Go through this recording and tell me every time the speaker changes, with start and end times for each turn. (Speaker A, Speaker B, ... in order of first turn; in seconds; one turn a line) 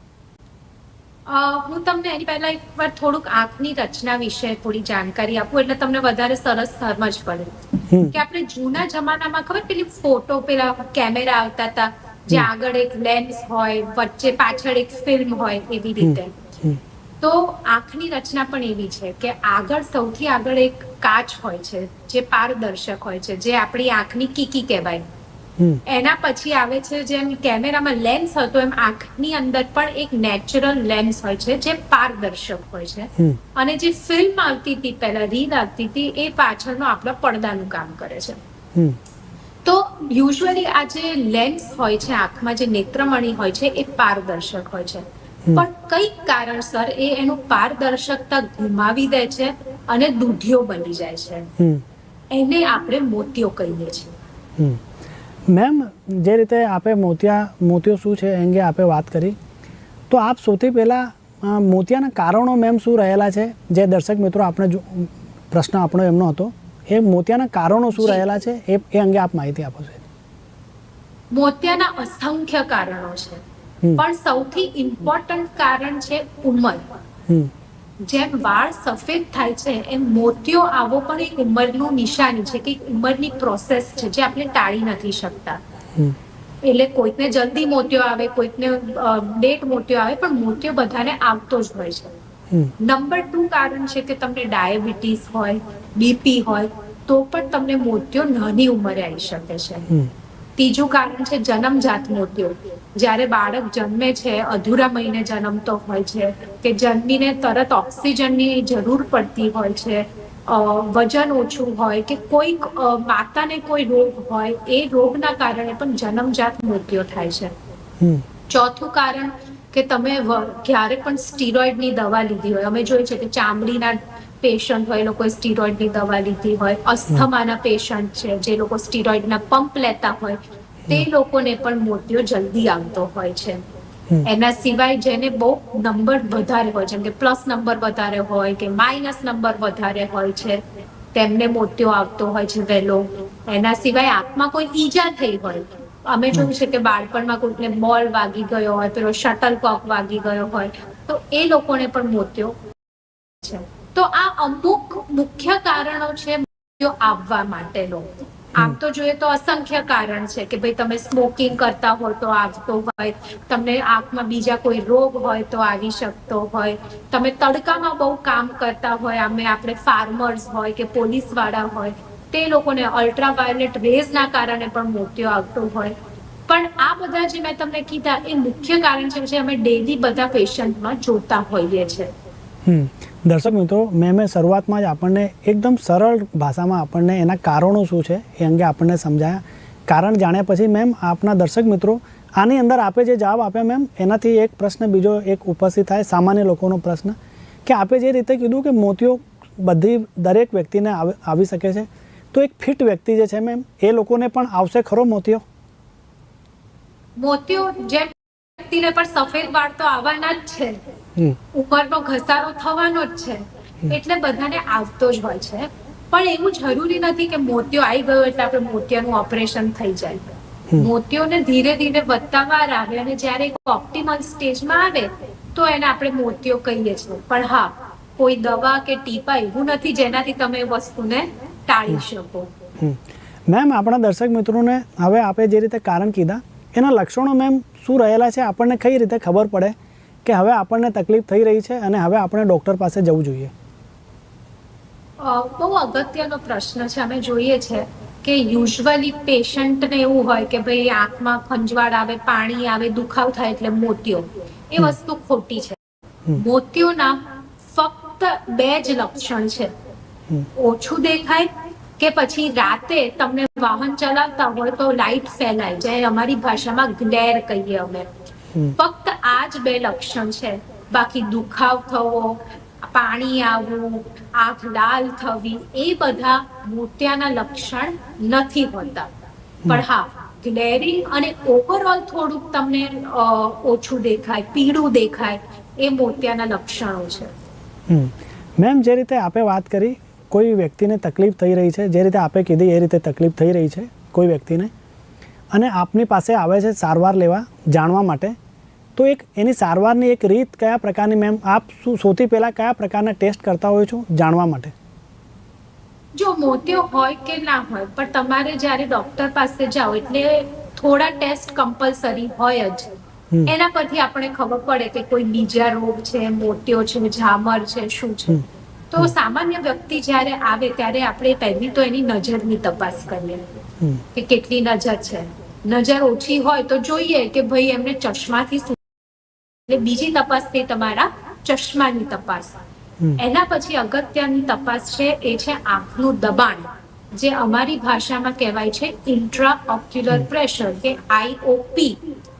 Speaker A: 1.3-16.4
Speaker B: 7.9-8.2
Speaker B: 16.0-16.8
Speaker A: 17.2-25.1
Speaker A: 25.8-38.4
Speaker A: 39.6-51.5
Speaker B: 51.6-51.8
Speaker A: 52.3-54.1
Speaker B: 54.6-54.8
Speaker B: 55.5-59.4
Speaker B: 60.1-70.0
Speaker A: 71.3-73.4
Speaker A: 74.0-76.8
Speaker A: 78.0-85.6
Speaker A: 86.6-92.2
Speaker A: 92.8-99.9
Speaker A: 100.6-117.5
Speaker B: 118.0-118.2
Speaker A: 118.5-133.6
Speaker A: 134.2-140.6
Speaker A: 141.1-152.6
Speaker A: 153.4-175.9
Speaker A: 176.5-182.1
Speaker B: 182.7-205.4
Speaker A: 207.2-210.8
Speaker A: 211.5-232.5
Speaker B: 232.8-243.5
Speaker A: 245.2-255.8
Speaker A: 256.3-259.7
Speaker A: 260.5-268.1
Speaker A: 268.7-279.1
Speaker A: 279.7-287.3
Speaker B: 287.9-294.7
Speaker B: 295.5-298.4
Speaker B: 298.9-304.7
Speaker A: 306.1-312.9
Speaker A: 313.4-323.4
Speaker A: 324.1-329.0
Speaker A: 329.7-332.5
Speaker A: 333.2-342.0